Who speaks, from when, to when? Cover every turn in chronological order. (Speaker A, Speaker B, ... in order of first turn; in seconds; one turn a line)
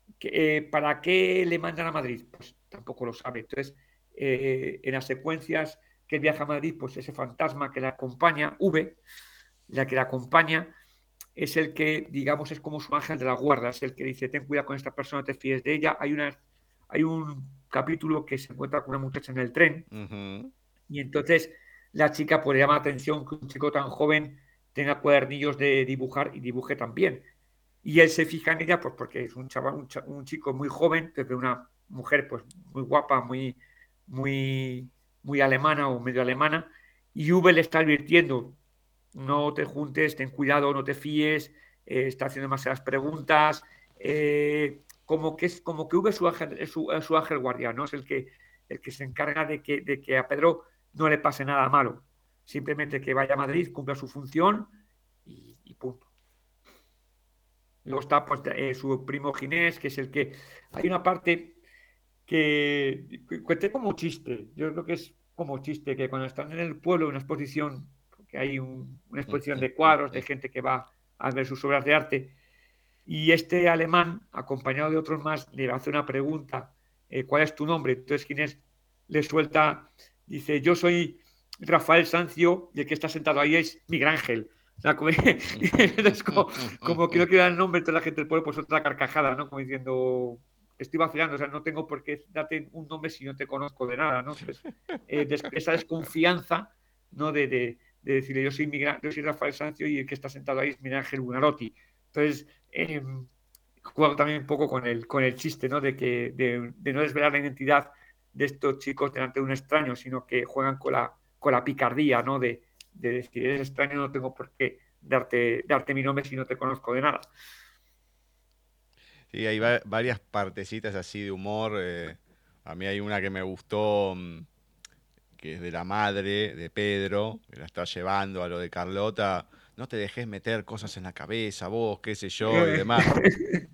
Speaker A: 0.2-9.0
Speaker A: 9.7-10.7
Speaker A: 11.3-16.4
Speaker A: 16.9-19.9
Speaker B: 19.9-20.5
Speaker A: 20.9-27.2
Speaker A: 27.8-38.6
Speaker A: 39.1-54.7
Speaker A: 55.2-56.0
Speaker A: 57.8-61.6
Speaker A: 62.3-72.3
Speaker B: 69.3-70.2
Speaker A: 73.1-103.3
Speaker A: 103.9-117.3
Speaker B: 119.3-124.5
Speaker B: 125.4-133.1
Speaker A: 132.5-133.6